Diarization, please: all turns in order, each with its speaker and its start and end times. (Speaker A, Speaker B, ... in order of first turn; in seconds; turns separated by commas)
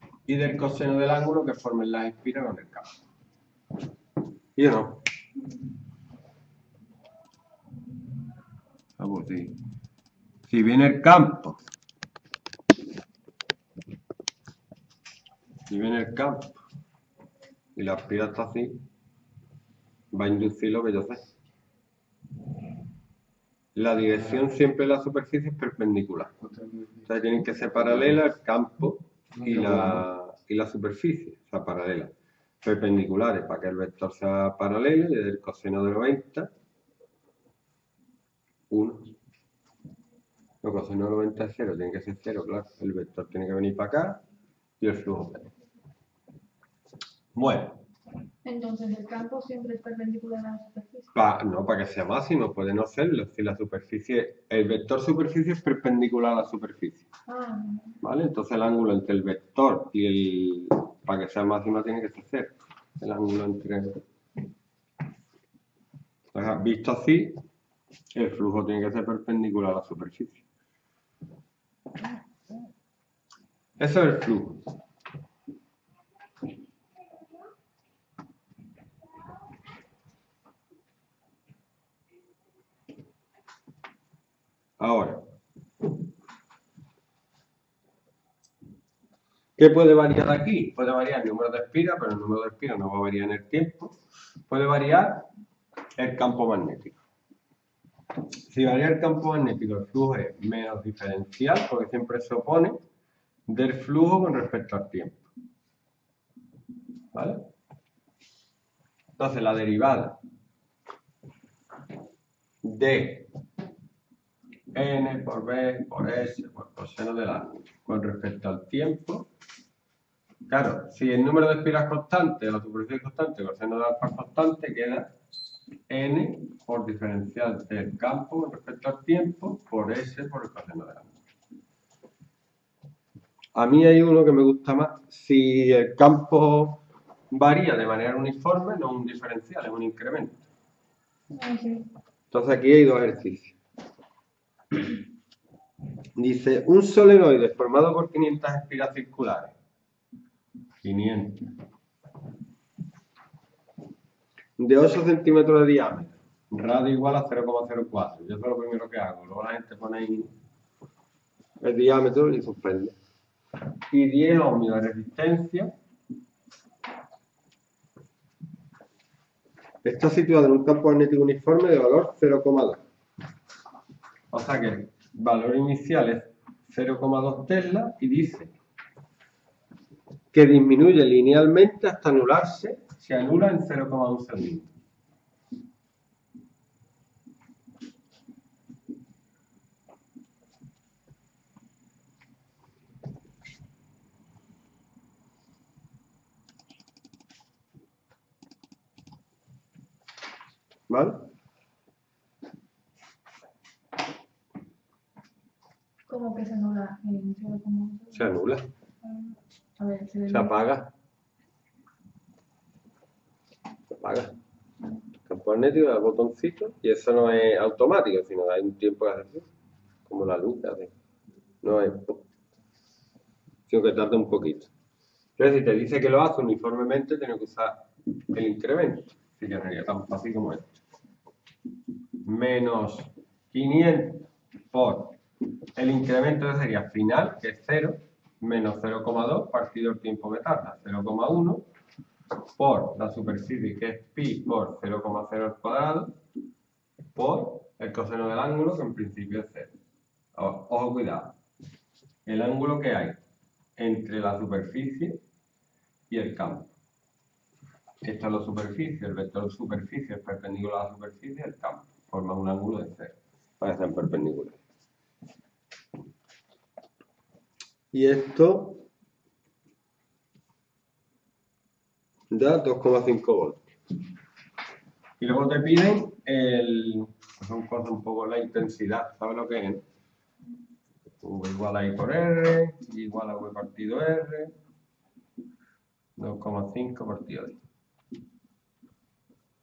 Speaker A: 0.3-2.9, Speaker A: 4.5-5.0, Speaker A: 9.0-9.6, Speaker A: 10.5-11.6, Speaker A: 15.7-16.6, Speaker A: 17.7-18.8, Speaker A: 20.1-21.2, Speaker A: 23.7-26.3, Speaker A: 27.0-36.5, Speaker A: 38.7-39.1, Speaker A: 40.6-44.2, Speaker A: 44.8-45.5, Speaker A: 47.3-47.8, Speaker B: 48.4-51.1, Speaker A: 51.1-57.0, Speaker B: 57.3-58.0, Speaker A: 58.0-64.0, Speaker A: 66.3-67.4, Speaker A: 68.1-70.4, Speaker A: 73.8-74.7, Speaker A: 84.8-85.3, Speaker A: 89.6-94.0, Speaker A: 94.5-95.3, Speaker A: 96.0-97.0, Speaker A: 98.5-102.8, Speaker A: 103.5-105.2, Speaker A: 107.1-107.5, Speaker A: 109.2-110.2, Speaker A: 112.6-113.3, Speaker A: 114.7-119.3, Speaker A: 120.5-125.1, Speaker A: 125.9-131.1, Speaker A: 133.5-140.4, Speaker B: 141.3-141.9, Speaker A: 142.3-143.5, Speaker A: 146.2-149.5, Speaker A: 150.8-151.5, Speaker A: 154.6-160.3, Speaker A: 161.6-162.9, Speaker A: 163.9-165.7, Speaker A: 169.8-172.8, Speaker A: 174.3-178.5, Speaker A: 180.3-184.7, Speaker A: 200.9-201.3, Speaker B: 206.1-208.3, Speaker A: 208.1-208.7, Speaker B: 209.0-210.6, Speaker A: 210.3-210.9, Speaker A: 214.0-214.3, Speaker A: 215.2-219.5, Speaker A: 220.1-220.9, Speaker A: 221.6-222.2, Speaker A: 223.7-224.7, Speaker A: 225.4-230.7, Speaker A: 232.2-235.2, Speaker A: 235.8-241.6, Speaker A: 242.6-246.2, Speaker A: 247.1-249.7, Speaker A: 250.3-251.3, Speaker A: 252.2-253.2, Speaker A: 253.8-255.2, Speaker A: 256.1-256.7, Speaker A: 258.0-264.6, Speaker A: 267.9-268.8, Speaker A: 272.3-273.6, Speaker A: 275.2-279.8, Speaker A: 281.2-284.5, Speaker A: 286.2-287.6